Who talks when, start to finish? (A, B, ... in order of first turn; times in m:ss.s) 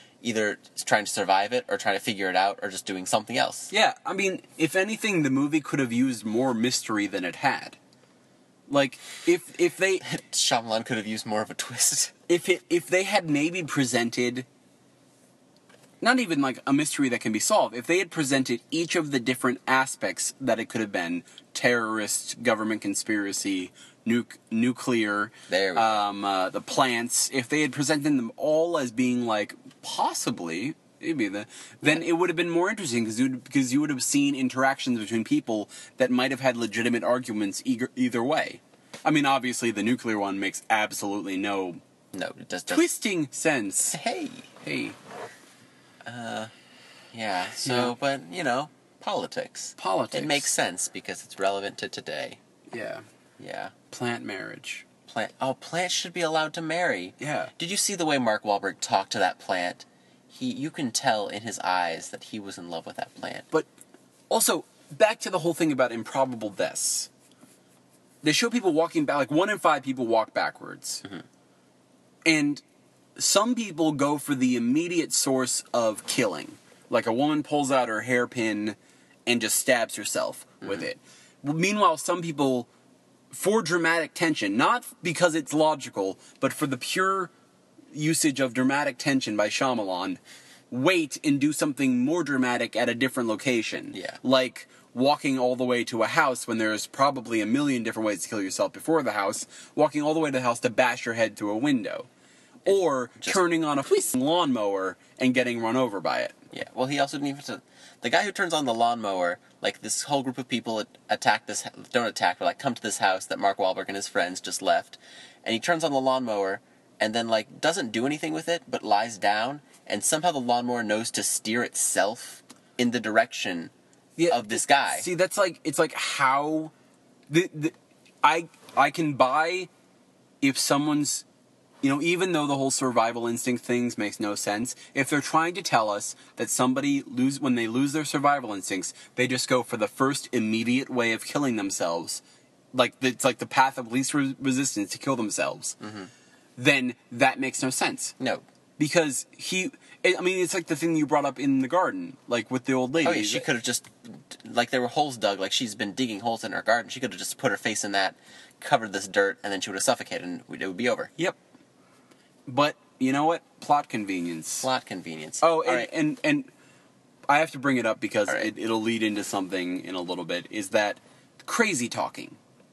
0:00.2-0:03.7 A
0:03.7-0:07.8 B
0:08.7-0:10.0 B
0:10.0-0:12.1 A
0:12.3-0:14.4 B
0:16.0-0:41.8 B
0:25.5-0:26.0 A
0:42.1-0:42.9 A
0:42.7-0:44.0 B
0:43.9-0:44.5 A
0:44.6-0:45.0 B
0:46.0-0:46.5 A
0:47.1-0:52.4 A
0:47.6-0:47.9 B
0:49.8-0:50.5 B
0:52.7-0:53.0 B
0:53.4-0:53.7 A
0:53.9-0:54.8 B
0:55.1-1:03.5 A
0:57.2-0:57.5 B
1:04.3-1:07.1 B
1:08.2-1:11.0 B
1:12.2-1:12.6 B
1:13.2-1:22.7 B
1:23.3-1:27.3 B
1:27.9-1:42.1 B
1:42.6-1:46.3 B
1:42.7-1:43.4 A
1:46.5-2:03.7 A
2:04.2-2:06.7 B
2:04.3-2:05.1 A
2:07.3-2:09.7 B
2:10.4-2:11.2 B
2:11.8-2:22.2 B
2:22.7-2:25.8 B
2:25.8-2:26.1 A
2:26.6-2:28.2 B
2:28.8-2:33.4 B
2:33.0-2:41.1 A
2:42.5-2:44.7 B
2:44.6-2:45.9 A
2:45.4-2:46.5 B
2:47.3-2:52.4 B